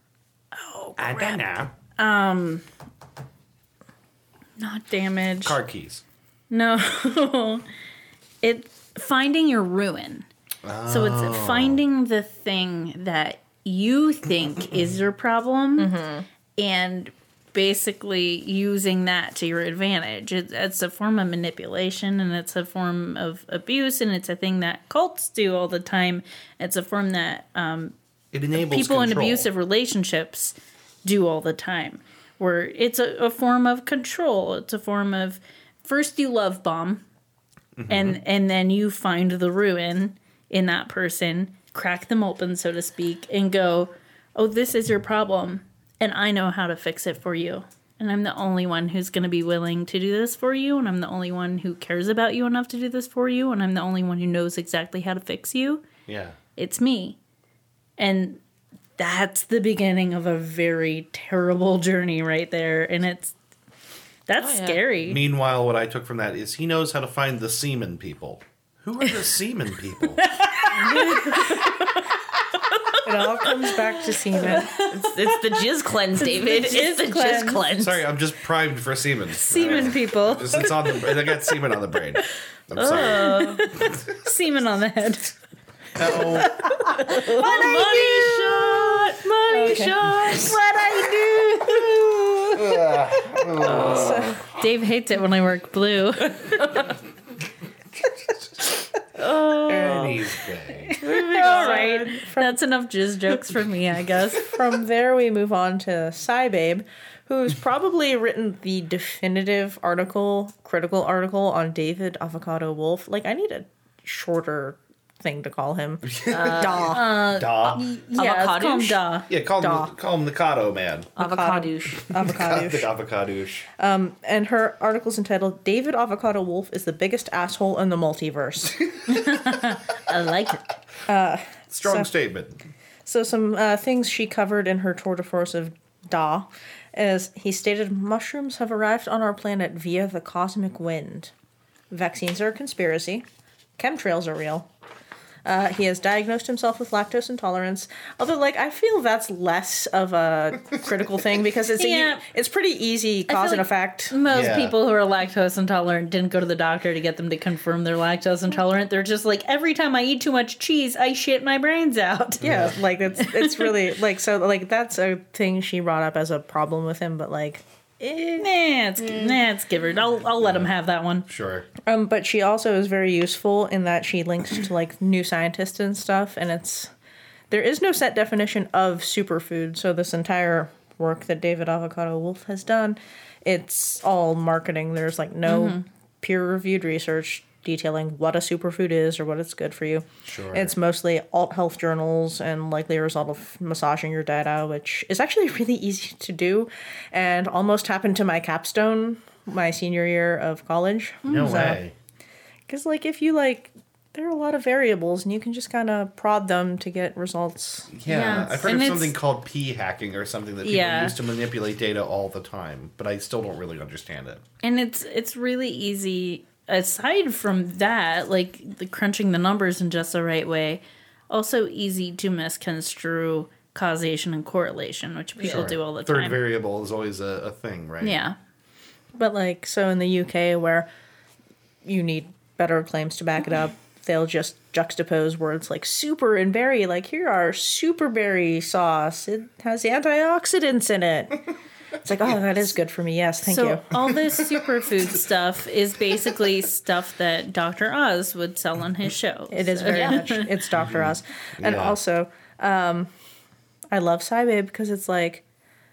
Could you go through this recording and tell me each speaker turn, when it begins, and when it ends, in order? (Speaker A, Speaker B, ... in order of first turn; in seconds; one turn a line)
Speaker A: 0.5-1.4
Speaker B: 1.0-1.7
Speaker A: 1.9-2.6
Speaker A: 4.6-5.6
Speaker B: 5.4-6.0
Speaker A: 6.5-7.6
Speaker A: 8.4-10.2
Speaker B: 10.6-11.8
Speaker A: 10.8-15.9
Speaker C: 15.8-16.2
Speaker A: 16.6-27.9
Speaker B: 28.3-29.5
Speaker A: 28.5-37.0
Speaker B: 37.8-38.2
Speaker A: 37.9-55.8
Speaker B: 56.1-56.4
Speaker A: 56.5-57.2
Speaker A: 58.0-58.4
Speaker A: 59.0-63.3
Speaker A: 64.3-65.2
Speaker C: 64.4-64.8
Speaker B: 65.0-70.3
Speaker A: 70.2-71.7
Speaker C: 70.8-71.9
Speaker D: 73.0-74.7
Speaker C: 74.3-78.0
Speaker A: 74.4-75.6
Speaker A: 76.2-77.6
Speaker B: 77.8-84.0
Speaker A: 79.4-81.1
Speaker C: 82.7-83.6
Speaker A: 83.0-85.3
Speaker B: 85.9-86.7
Speaker A: 86.0-88.6
Speaker C: 87.1-90.6
Speaker D: 87.1-88.1
Speaker D: 89.5-92.6
Speaker A: 90.9-91.8
Speaker B: 92.5-94.3
Speaker C: 93.6-94.4
Speaker D: 93.7-94.4
Speaker A: 94.5-96.8
Speaker C: 96.6-96.9
Speaker C: 99.2-100.2
Speaker B: 99.6-101.0
Speaker A: 100.8-104.5
Speaker C: 101.0-102.0
Speaker D: 101.3-102.6
Speaker D: 104.4-117.1
Speaker B: 116.0-117.9
Speaker C: 116.3-116.9
Speaker A: 116.9-119.3
Speaker C: 118.2-119.0
Speaker B: 119.3-121.1
Speaker D: 119.6-119.9
Speaker C: 121.2-122.1
Speaker D: 121.2-122.9
Speaker B: 122.1-123.7
Speaker D: 123.8-128.9
Speaker A: 129.1-130.7
Speaker D: 131.1-132.1
Speaker B: 131.7-132.6
Speaker D: 133.1-141.3
Speaker D: 141.9-143.2
Speaker D: 143.8-144.7
Speaker D: 145.4-154.2
Speaker A: 151.8-152.2
Speaker A: 153.3-162.5
Speaker B: 154.3-154.7
Speaker B: 162.4-162.8
Speaker D: 162.4-168.5
Speaker A: 163.2-163.7
Speaker A: 168.4-171.3
Speaker B: 171.3-171.7
Speaker D: 171.8-176.9
Speaker D: 177.5-201.8
Speaker A: 185.4-185.8
Speaker B: 190.2-190.7
Speaker B: 201.3-201.9
Speaker A: 201.3-201.6
Speaker D: 202.7-208.5
Speaker B: 207.9-214.4
Speaker A: 208.1-209.2
Speaker A: 210.6-211.1
Speaker A: 214.6-226.4
Speaker C: 225.4-225.7
Speaker B: 225.5-228.2
Speaker A: 228.0-228.3
Speaker D: 229.1-230.9
Speaker D: 231.8-243.9
Speaker A: 243.4-250.5
Speaker B: 244.1-244.6
Speaker D: 249.5-253.1
Speaker C: 249.9-250.2
Speaker B: 250.8-252.0
Speaker D: 253.9-255.4